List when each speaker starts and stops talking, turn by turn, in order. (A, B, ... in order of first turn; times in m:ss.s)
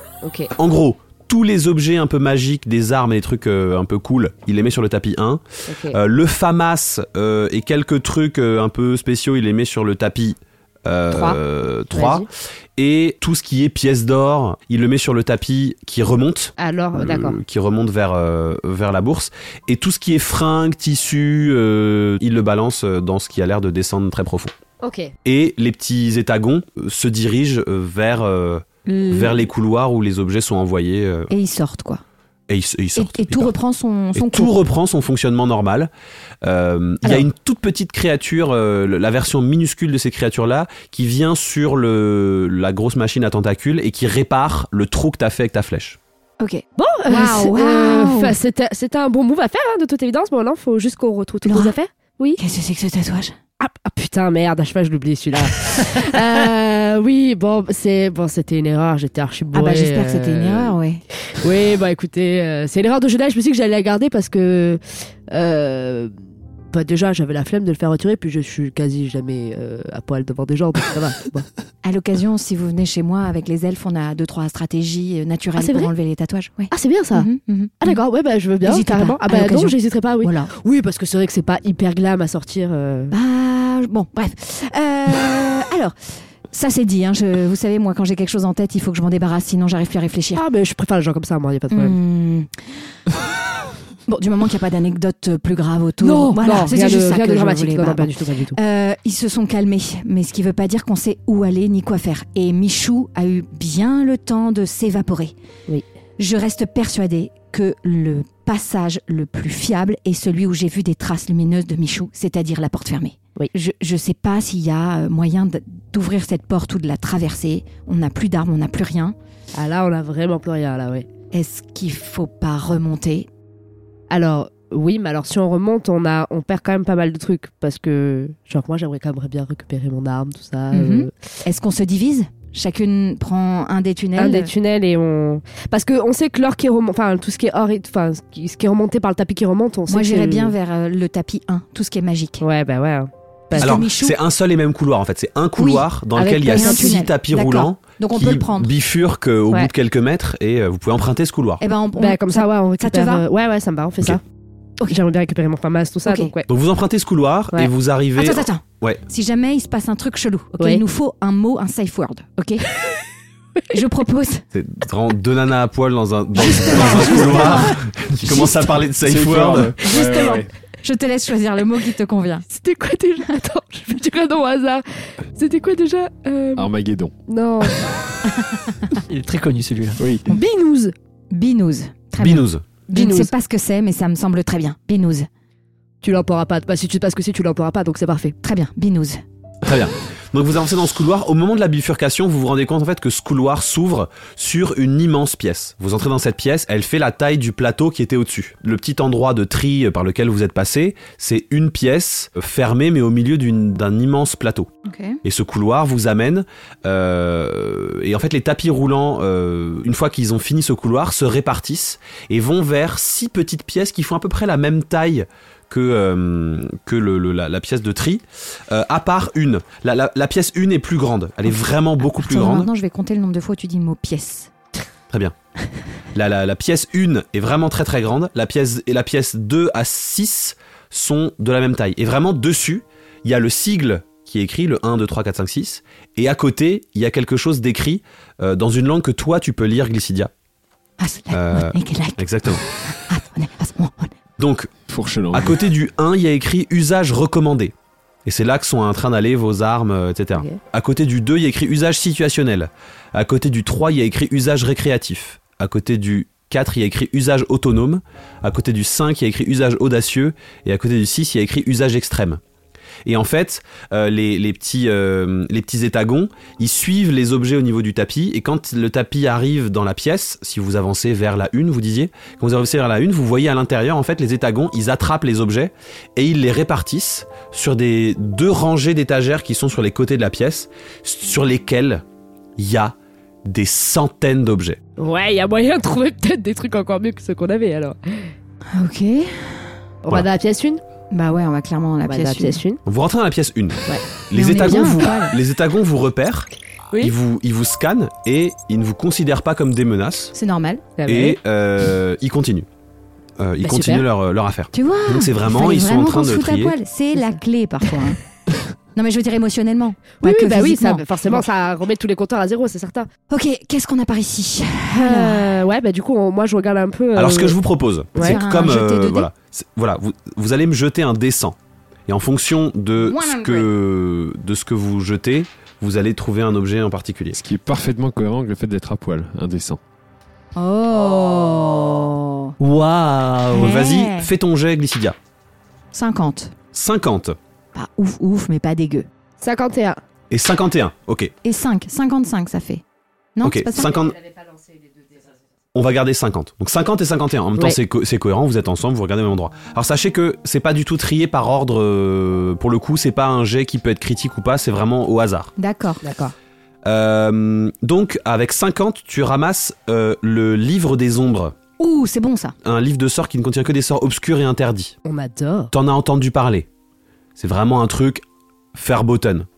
0:00.2-0:00.5 A
0:00.5-0:12.2 B
0:05.7-0:06.0 A
0:11.1-0:11.4 A
0:11.9-0:12.2 A
0:12.8-0:24.5 B
0:16.6-0:17.4 A
0:24.8-0:25.1 A
0:25.2-0:31.3 B
0:28.9-0:29.4 C
0:31.3-0:32.0 C
0:32.5-0:33.5 B
0:33.0-0:34.6 C
0:34.1-0:35.9 B
0:36.4-0:46.0 B
0:46.4-0:48.4 C
0:46.8-0:52.4 A
0:51.4-0:51.7 C
0:52.4-0:53.4 C
0:53.6-1:00.7 A
0:59.5-1:01.0 C
1:01.3-1:06.1 A
1:06.7-1:11.5 A
1:11.8-1:18.0 C
1:15.6-1:15.9 A
1:16.7-1:17.3 A
1:17.8-1:23.1 A
1:18.6-1:20.5 C
1:23.1-1:25.9 C
1:26.5-1:30.4 C
1:30.3-1:32.0 A
1:31.7-1:32.6 C
1:34.1-1:45.3 C
1:36.0-1:38.6 A
1:46.2-1:59.2 C
1:59.5-2:01.0 A
2:01.3-2:03.3 C
2:04.1-2:11.1 A
2:10.7-2:14.5 C
2:14.2-2:20.5 A
2:19.9-2:22.4 C
2:22.4-2:23.9 A
2:23.5-2:24.2 C
2:23.6-2:31.6 B
2:25.6-2:25.8 C
2:26.2-2:27.0 A
2:26.5-2:28.7 C
2:31.6-2:33.2 C
2:32.0-2:34.2 A
2:34.9-2:36.5 A
2:36.0-2:36.3 C
2:36.5-2:39.0 B
2:38.2-2:42.7 C
2:43.7-2:44.4 C
2:44.5-2:49.8 B
2:46.4-2:47.7 C
2:46.7-2:50.5 D
2:48.3-2:48.6 C
2:49.8-2:52.4 C
2:52.5-2:54.8 A
2:55.3-2:56.7 A
2:56.6-2:57.1 D
2:57.3-2:57.9 A
2:59.1-3:00.0 E
3:00.0-3:00.3 D
3:00.3-3:00.9 A
3:01.3-3:05.3 C
3:02.2-3:02.6 B
3:02.9-3:03.3 A
3:06.0-3:08.4 A
3:08.4-3:09.2 C
3:09.6-3:24.7 B
3:24.8-3:25.2 C
3:25.2-3:42.7 B
3:42.2-3:44.5 C
3:46.1-4:00.3 B
4:01.0-4:04.1 C
4:01.3-4:02.6 B
4:04.4-4:04.7 B
4:04.9-4:05.6 D
4:05.3-4:07.7 B
4:08.2-4:22.4 B
4:23.0-4:42.0 B
4:42.6-4:44.8 B
4:45.0-4:48.3 A
4:48.7-4:49.6 C
4:50.0-4:50.8 A
4:51.1-4:52.6 C
4:52.0-4:52.8 A
4:52.8-5:00.3 B
4:53.9-4:55.1 A
4:54.3-4:55.4 C
5:00.3-5:00.9 C
5:01.0-5:01.4 A
5:01.0-5:02.6 B
5:03.4-5:06.8 B
5:03.6-5:04.0 A
5:04.7-5:08.2 C
5:08.9-5:11.4 C
5:10.2-5:13.1 A
5:13.3-5:15.6 C
5:14.9-5:17.6 A
5:17.2-5:21.6 B
5:18.1-5:18.4 A
5:18.2-5:19.3 C
5:22.1-5:27.4 B
5:23.0-5:23.7 C
5:27.3-5:29.8 D
5:30.6-5:32.6 C
5:32.6-5:33.8 E
5:33.5-5:34.3 C
5:33.5-5:35.2 B
5:35.9-5:36.5 C
5:36.7-5:37.4 B
5:37.7-5:39.1 C
5:39.4-5:40.0 A
5:40.3-5:41.3 B
5:41.4-5:42.8 C
5:43.4-5:44.0 C
5:43.4-5:44.2 B
5:45.7-5:55.5 B
5:55.6-5:56.0 C
5:56.0-5:56.3 A
5:56.8-6:01.5 B
6:01.8-6:02.5 C
6:02.6-6:04.9 B
6:05.0-6:05.7 A
6:05.7-6:06.7 B
6:07.4-6:08.2 B
6:08.7-6:09.5 B